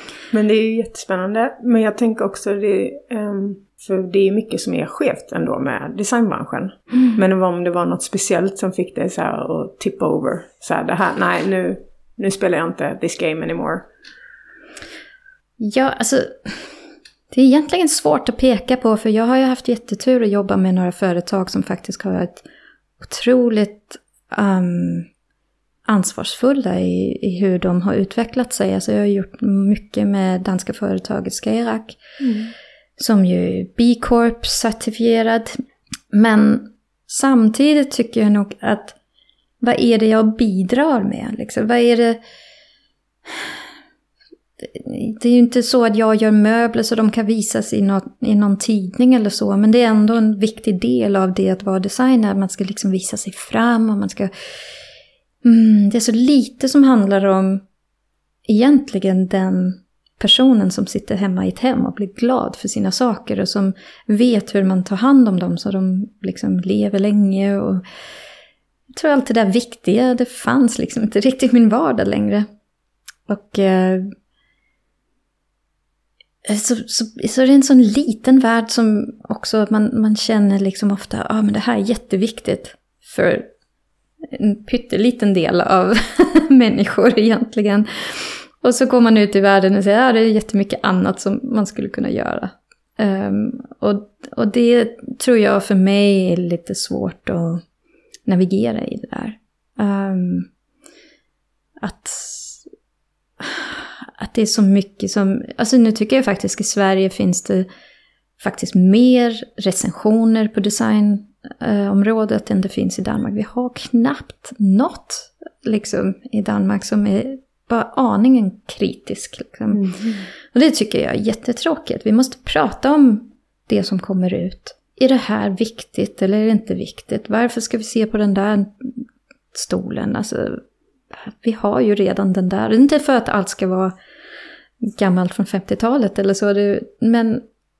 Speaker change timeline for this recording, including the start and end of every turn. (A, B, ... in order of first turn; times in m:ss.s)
0:00.3-0:13.8 A
0:15.6-0:16.7 B
0:17.3-0:22.4 B
0:23.0-0:25.1 B
0:25.8-0:32.0 B
0:32.2-0:32.5 A
0:33.0-0:35.6 B
0:36.1-0:39.0 B
0:39.6-0:42.2 B
0:44.6-0:54.3 B
0:55.4-0:57.6 B
0:58.5-1:07.8 B
1:08.9-1:12.5 B
1:13.3-1:14.1 B
1:16.4-1:23.5 B
1:24.2-1:37.6 B
1:38.2-1:40.5 B
1:41.8-1:42.6 B
1:43.4-1:47.7 B
1:48.4-1:59.9 B
1:59.7-2:00.2 A
2:00.5-2:10.6 B
2:11.2-2:13.9 B
2:14.8-2:17.4 B